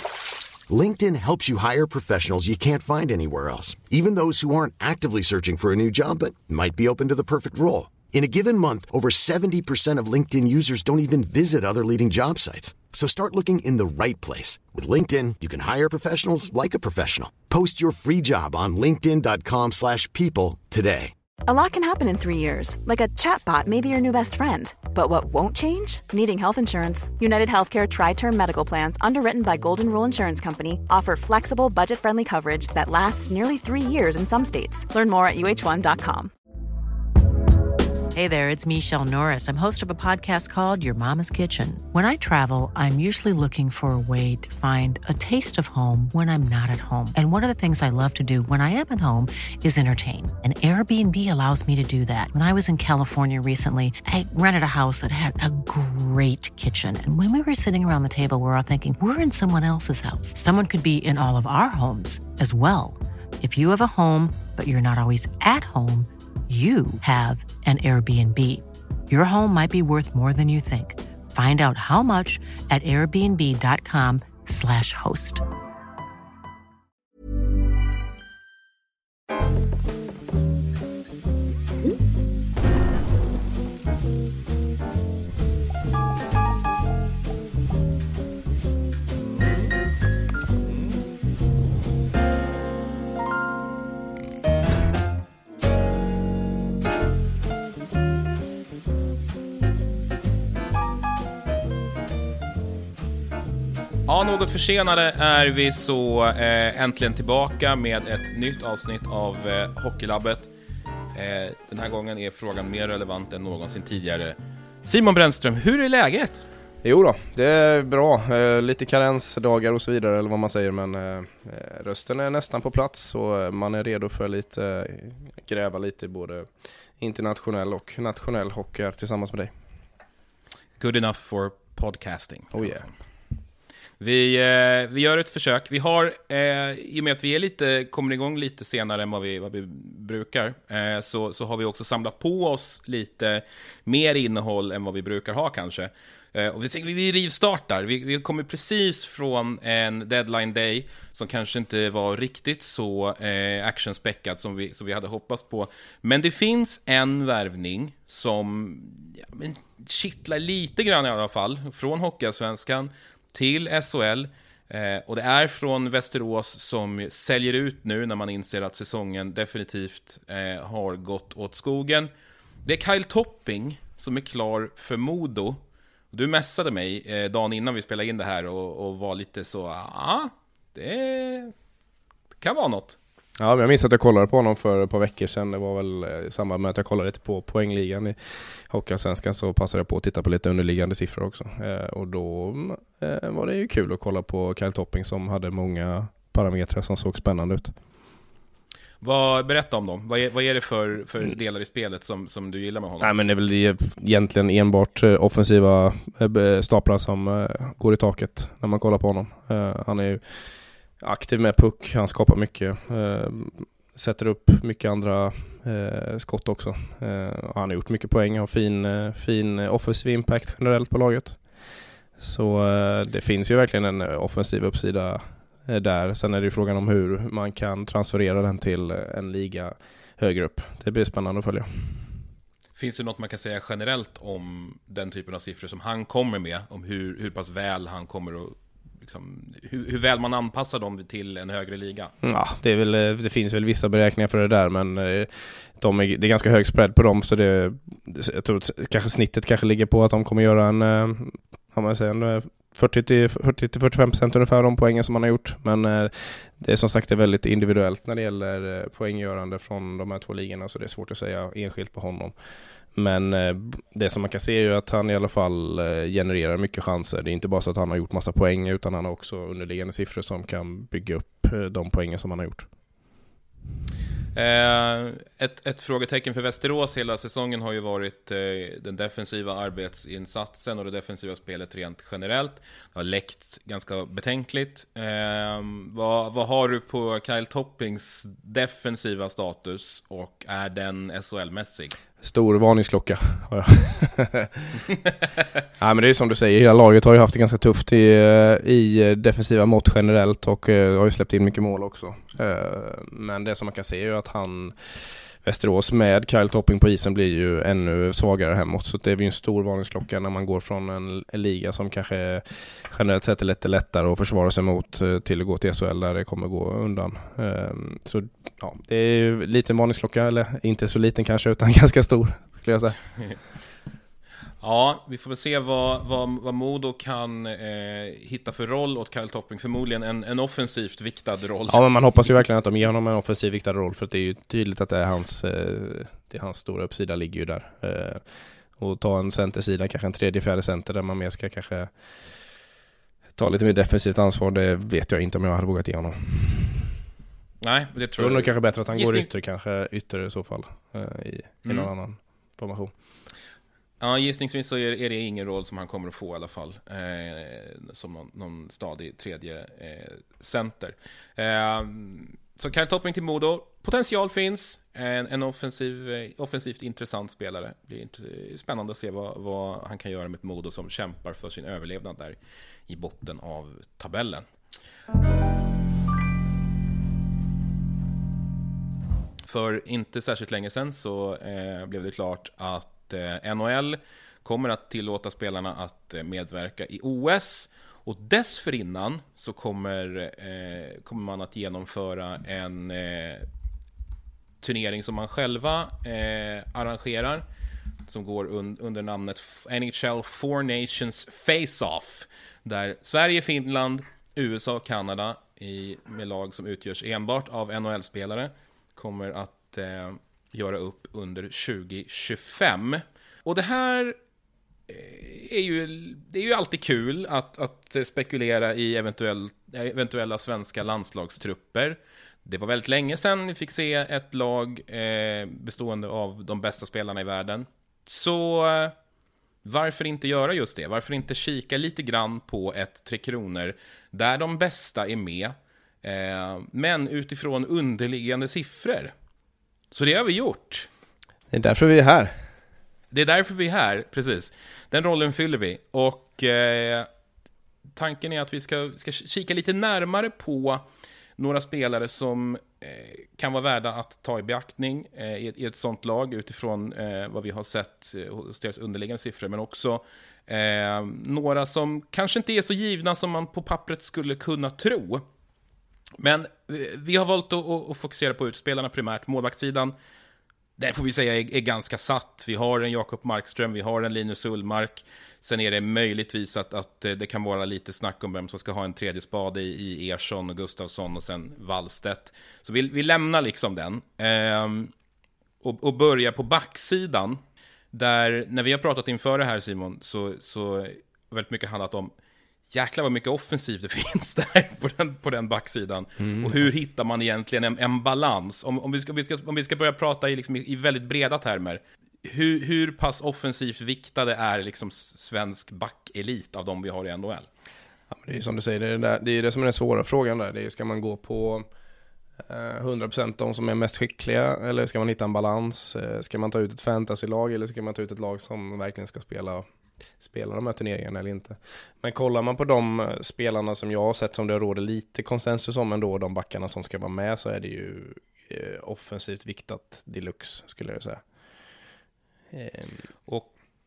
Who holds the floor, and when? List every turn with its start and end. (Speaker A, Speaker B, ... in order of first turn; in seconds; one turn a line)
Speaker A: 0.7-21.1
Speaker B: 21.4-36.3
Speaker C: 38.1-75.4
Speaker D: 104.1-110.5
Speaker D: 111.1-116.4
Speaker E: 116.8-129.5
Speaker D: 130.8-132.9
Speaker E: 132.5-132.9
Speaker D: 134.0-172.1
Speaker D: 172.6-181.5
Speaker D: 182.4-183.0
Speaker E: 183.4-197.7
Speaker D: 199.0-203.1
Speaker E: 203.0-210.5
Speaker E: 211.0-221.4
Speaker E: 222.2-232.0
Speaker D: 232.8-242.1
Speaker E: 242.2-262.3
Speaker E: 262.9-272.7
Speaker D: 274.3-291.9
Speaker E: 292.2-294.9
Speaker E: 295.8-323.0
Speaker D: 324.6-331.8
Speaker E: 331.7-338.2
Speaker E: 338.8-342.1
Speaker E: 343.4-346.9
Speaker D: 347.6-349.3
Speaker E: 348.2-352.9
Speaker D: 351.6-351.9
Speaker D: 354.0-372.4
Speaker D: 372.9-374.5
Speaker D: 379.4-393.5
Speaker D: 394.6-397.4
Speaker D: 398.1-414.2
Speaker D: 414.9-428.9
Speaker D: 429.6-439.1
Speaker D: 439.9-440.9
Speaker E: 441.5-442.4
Speaker D: 443.1-447.1
Speaker D: 447.9-450.8
Speaker D: 451.4-465.2
Speaker D: 466.2-469.9
Speaker D: 470.8-484.9
Speaker D: 485.6-487.4
Speaker D: 487.9-492.1
Speaker D: 492.7-507.5
Speaker E: 496.2-496.6
Speaker E: 508.1-511.6
Speaker E: 512.5-519.6
Speaker E: 520.2-531.2
Speaker E: 532.5-533.0